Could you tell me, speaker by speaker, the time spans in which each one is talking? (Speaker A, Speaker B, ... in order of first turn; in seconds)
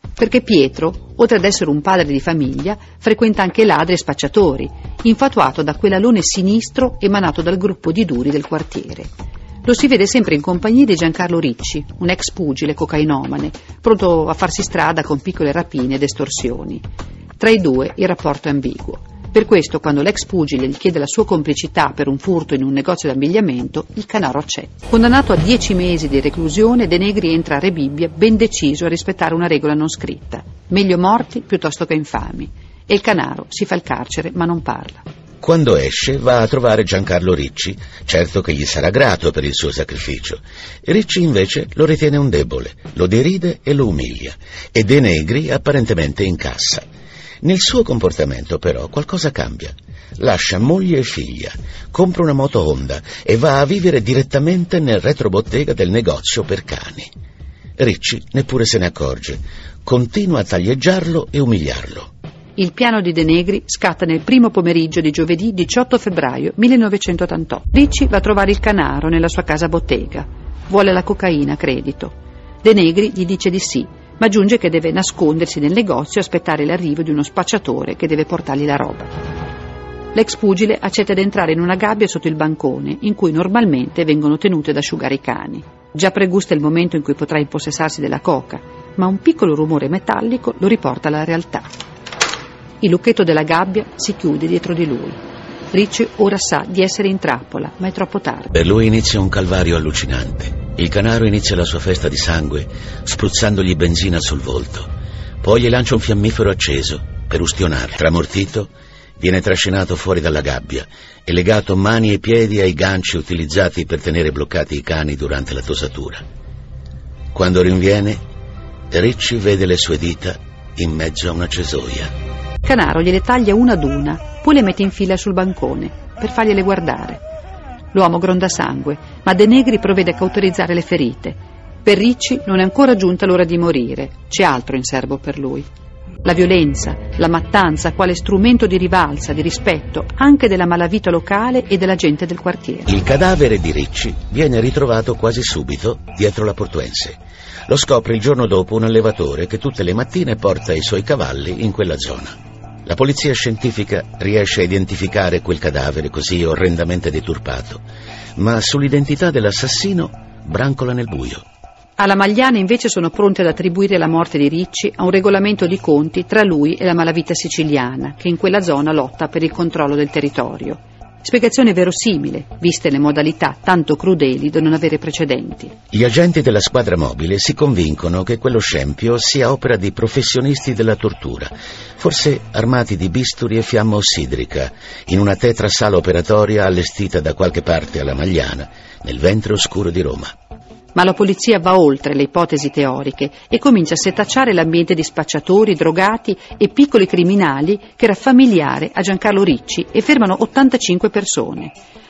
Speaker A: 0.2-9.1, 9.7-16.8, 17.4-35.0, 62.6-79.2, 80.1-91.7, 92.8-95.2, 95.7-98.5, 122.6-127.2, 127.9-135.7, 136.2-142.9, 162.0-175.8, 190.9-201.8
Speaker B: 35.4-46.9, 47.4-57.1, 57.8-62.1, 98.5-104.9, 105.4-116.2, 117.3-118.2, 118.9-122.1, 142.9-157.8, 158.4-161.4, 175.9-190.3